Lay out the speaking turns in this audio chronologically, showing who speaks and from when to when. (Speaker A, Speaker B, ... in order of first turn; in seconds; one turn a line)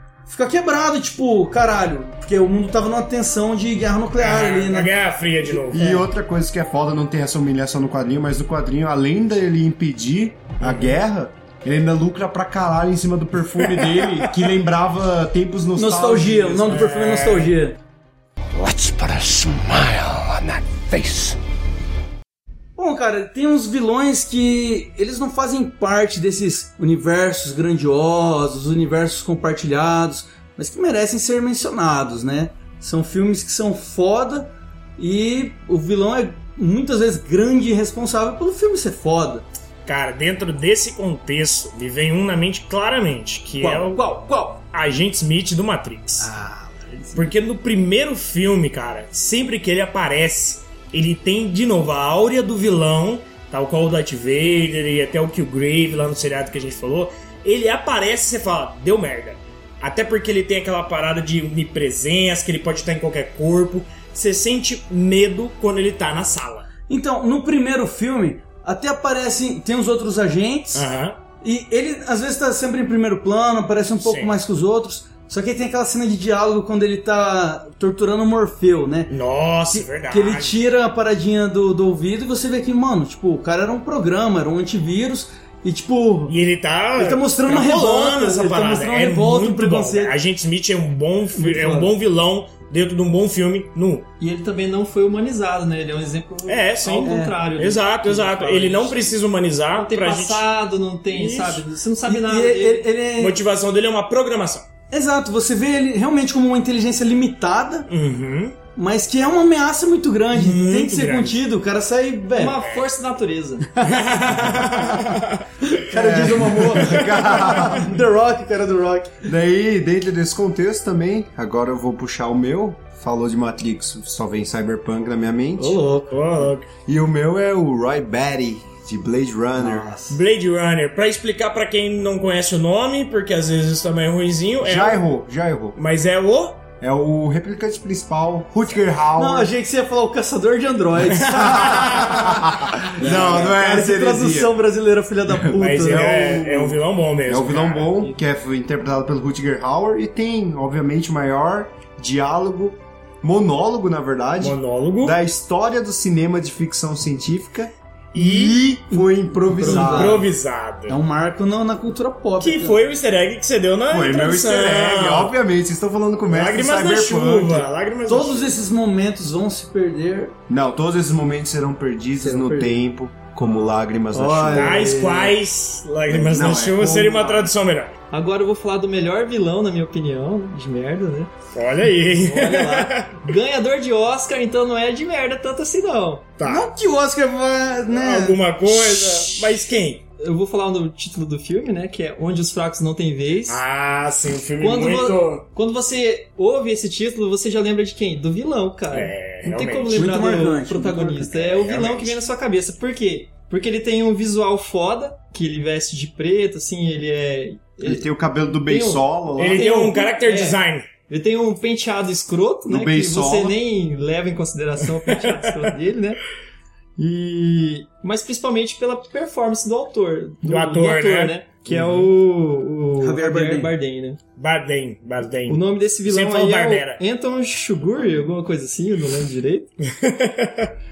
Speaker A: 0.3-4.9
Speaker B: 4.2-5.9
Speaker A: 5.4-6.1
Speaker C: 5.7-16.9
Speaker B: 10.6-11.0
Speaker A: 15.8-17.8
Speaker B: 16.7-17.5
Speaker D: 18.5-21.4
Speaker A: 22.8-39.5
Speaker B: 39.9-44.0
Speaker A: 43.6-44.6
Speaker B: 44.7-46.3
Speaker A: 46.2-47.3
Speaker B: 47.1-66.7
Speaker A: 66.9-70.8
Speaker B: 70.7-71.2
Speaker A: 71.4-79.1
Speaker B: 74.0-74.3
Speaker B: 79.1-80.6
Speaker A: 79.7-86.3
Speaker B: 86.3-94.1
Speaker A: 87.0-90.2
Speaker A: 91.3-91.9
Speaker E: 94.2-99.1
Speaker B: 96.5-100.5
Speaker A: 97.0-97.3
Speaker E: 99.7-102.9
Speaker B: 101.1-101.7
Speaker A: 102.1-103.4
Speaker B: 103.2-104.7
Speaker A: 104.9-107.9
Speaker B: 107.9-108.6
Speaker A: 108.7-112.6
Speaker B: 110.3-111.4
Speaker E: 112.4-113.7
Speaker B: 112.6-112.9
Speaker A: 113.8-115.1
Speaker B: 113.8-115.5
Speaker A: 115.6-119.2
Speaker C: 115.9-117.9
Speaker B: 116.8-117.4
Speaker C: 119.2-125.8
Speaker A: 125.6-126.2
Speaker B: 126.1-126.7
Speaker C: 126.8-129.9
Speaker A: 129.6-130.2
Speaker B: 130.1-135.1
Speaker C: 134.6-135.8
Speaker B: 135.8-136.6
Speaker C: 136.8-139.5
Speaker A: 139.2-146.2
Speaker B: 141.1-142.3
Speaker C: 141.9-144.6
Speaker B: 145.5-148.1
Speaker C: 145.8-160.3
Speaker B: 154.4-155.2
Speaker B: 158.1-158.6
Speaker A: 158.9-160.2
Speaker B: 159.6-161.0
Speaker A: 160.9-162.8
Speaker B: 162.4-165.3
Speaker C: 163.9-167.7
Speaker B: 166.3-168.6
Speaker A: 168.1-170.3
Speaker C: 170.5-175.0
Speaker A: 172.2-172.8
Speaker A: 174.1-175.3
Speaker B: 174.5-177.9
Speaker C: 176.1-177.5
Speaker E: 178.1-181.3
Speaker B: 181.5-183.2
Speaker E: 182.2-186.3
Speaker B: 186.4-186.7
Speaker A: 186.4-188.4
Speaker B: 187.9-190.0
Speaker E: 188.7-189.5
Speaker E: 190.2-193.6
Speaker B: 193.5-195.4
Speaker E: 194.6-208.1
Speaker B: 198.9-200.2
Speaker A: 200.0-201.4
Speaker B: 201.4-202.2
Speaker C: 207.8-209.7
Speaker E: 208.6-216.2
Speaker B: 209.4-210.9
Speaker C: 212.7-213.6
Speaker B: 215.3-215.6
Speaker E: 217.0-224.2
Speaker B: 220.4-222.1
Speaker A: 223.0-223.7
Speaker B: 224.4-227.0
Speaker E: 225.5-229.7
Speaker B: 229.9-230.7